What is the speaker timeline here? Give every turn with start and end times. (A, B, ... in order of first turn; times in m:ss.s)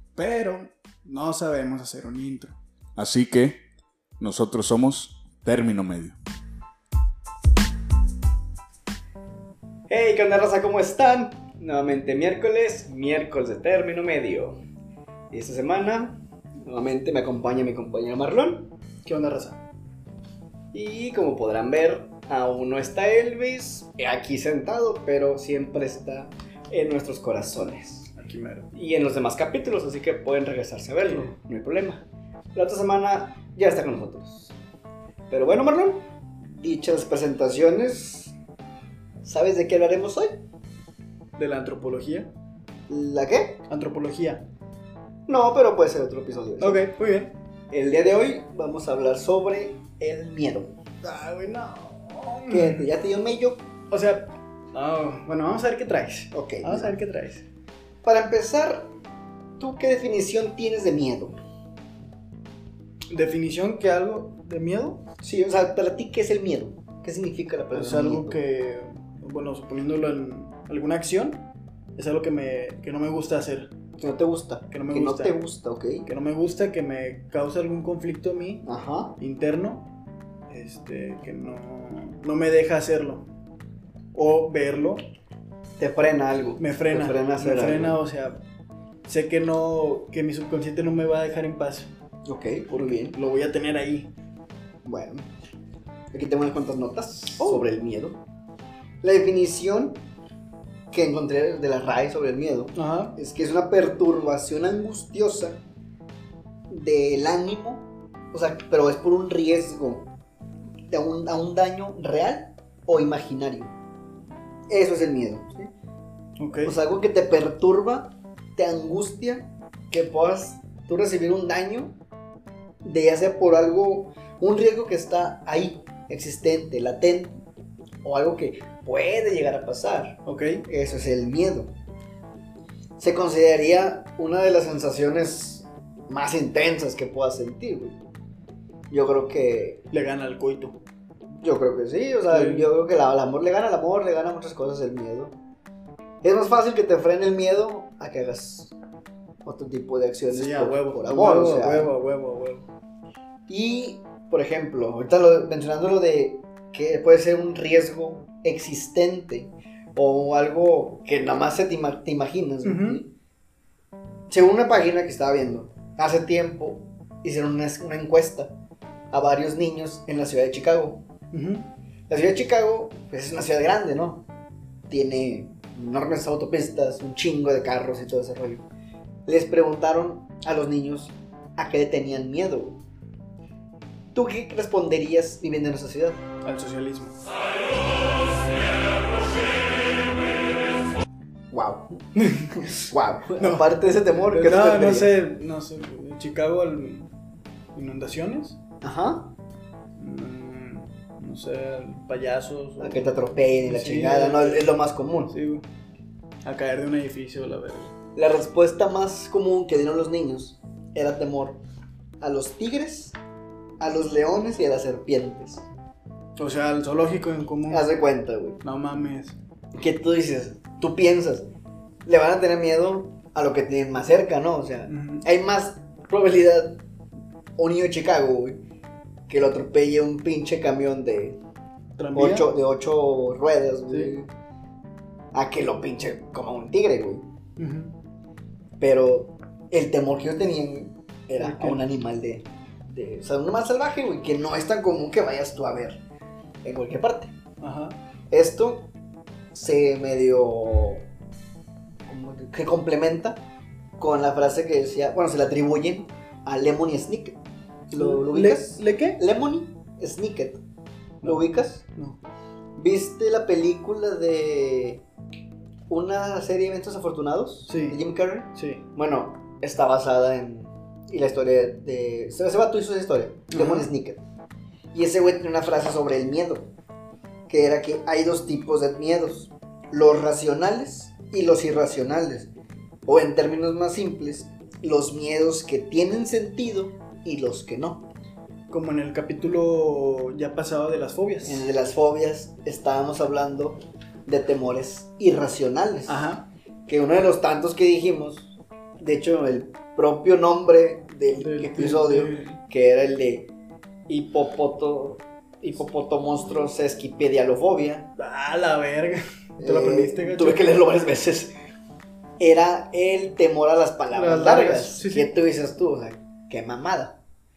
0:00.2-0:02.6 A
0:03.0-0:03.6 B
0:04.2-0:06.2 B
0:09.9-0:14.6 C
0:15.3-0:18.7 C
0:19.0-0:19.6 A
0:20.7-0:28.1 C
0:28.1-0:28.7 A
0:28.7-0:32.0 C
0:31.0-0:31.3 A
0:32.5-0:34.6 C
0:35.3-0:38.3 C
0:39.2-0:40.4 C
0:41.4-0:42.3 A
0:42.9-0:43.6 C
0:43.7-0:44.4 A
0:45.3-0:46.8 C
0:46.6-0:47.3 A
0:47.7-0:50.7 C
0:51.0-0:52.9 A
0:52.5-0:53.6 C
0:53.9-0:57.4 A
0:56.3-0:56.9 C
0:58.0-0:58.9 C
0:59.6-1:01.4 C
1:03.1-1:05.0 A
1:05.2-1:08.4 C
1:07.7-1:11.4 A
1:12.0-1:13.7 A
1:14.0-1:16.1 C
1:14.7-1:15.4 A
1:16.0-1:18.6 A
1:18.6-1:19.2 C
1:19.2-1:19.9 A
1:20.5-1:23.2 A
1:24.1-1:25.0 A
1:25.8-1:28.0 C
1:26.6-1:28.4 A
1:29.0-1:31.9 A
1:32.2-1:33.2 C
1:32.7-1:34.1 A
1:34.8-1:35.3 C
1:36.1-1:38.2 C
1:39.0-1:40.0 C
1:40.9-1:45.6 C
1:42.8-1:43.1 A
1:46.7-1:50.0 C
1:50.9-1:53.7 C
1:54.7-1:55.7 C
1:56.4-1:56.7 A
1:56.6-2:01.9 C
2:02.8-2:07.4 C
2:08.0-2:11.7 C
2:10.2-2:10.6 A
2:13.0-2:17.9 C
2:18.9-2:19.8 C
2:19.9-2:20.8 A
2:21.4-2:25.3 C
2:22.3-2:22.7 A
2:26.2-2:28.7 C
2:29.4-2:31.9 C
2:30.3-2:32.7 A
2:33.5-2:43.1 C
2:42.6-2:43.0 A
2:44.3-2:48.5 C
2:49.1-2:51.0 C
2:51.3-2:51.6 A
2:52.1-2:54.2 C
2:54.9-2:58.6 C
2:59.2-3:02.8 C
3:04.1-3:06.2 C
3:06.4-3:07.2 A
3:11.5-3:12.0 C
3:12.2-3:12.7 A
3:12.5-3:15.1 C
3:13.4-3:17.1 A
3:17.7-3:18.6 A
3:18.8-3:19.3 C
3:20.0-3:23.1 A
3:22.8-3:25.3 C
3:23.6-3:24.7 A
3:25.3-3:25.6 A
3:26.4-3:27.9 A
3:28.2-3:31.6 C
3:32.2-3:33.2 C
3:33.8-3:35.6 C
3:36.4-3:37.8 A
3:37.7-3:38.6 C
3:38.6-3:39.4 A
3:39.8-3:41.4 C
3:42.0-3:46.8 C
3:44.9-3:45.2 A
3:47.6-3:48.6 C
3:49.3-3:51.4 C
3:52.0-3:52.5 A
3:52.1-3:54.3 C
3:55.3-3:57.2 C
3:57.6-3:57.9 A
3:58.8-4:06.0 C
4:01.4-4:01.8 A
4:06.6-4:07.3 C
4:07.6-4:08.0 A
4:08.3-4:08.9 C
4:09.5-4:11.0 C
4:12.1-4:13.4 C
4:14.0-4:17.4 C
4:17.9-4:20.6 C
4:17.9-4:19.2 A
4:21.2-4:21.8 C
4:22.8-4:25.0 C
4:25.9-4:34.2 C
4:27.7-4:28.0 A
4:28.5-4:28.8 A
4:33.5-4:33.9 A
4:34.9-4:36.7 C
4:37.5-4:42.5 C
4:43.0-4:48.0 C
4:48.7-4:51.6 A
4:51.4-4:56.2 C
4:56.1-4:56.4 A
4:56.9-5:03.5 C
5:01.3-5:02.6 A
5:04.1-5:08.1 C
5:08.2-5:10.7 A
5:09.6-5:11.5 C
5:12.4-5:17.2 C
5:14.1-5:15.3 A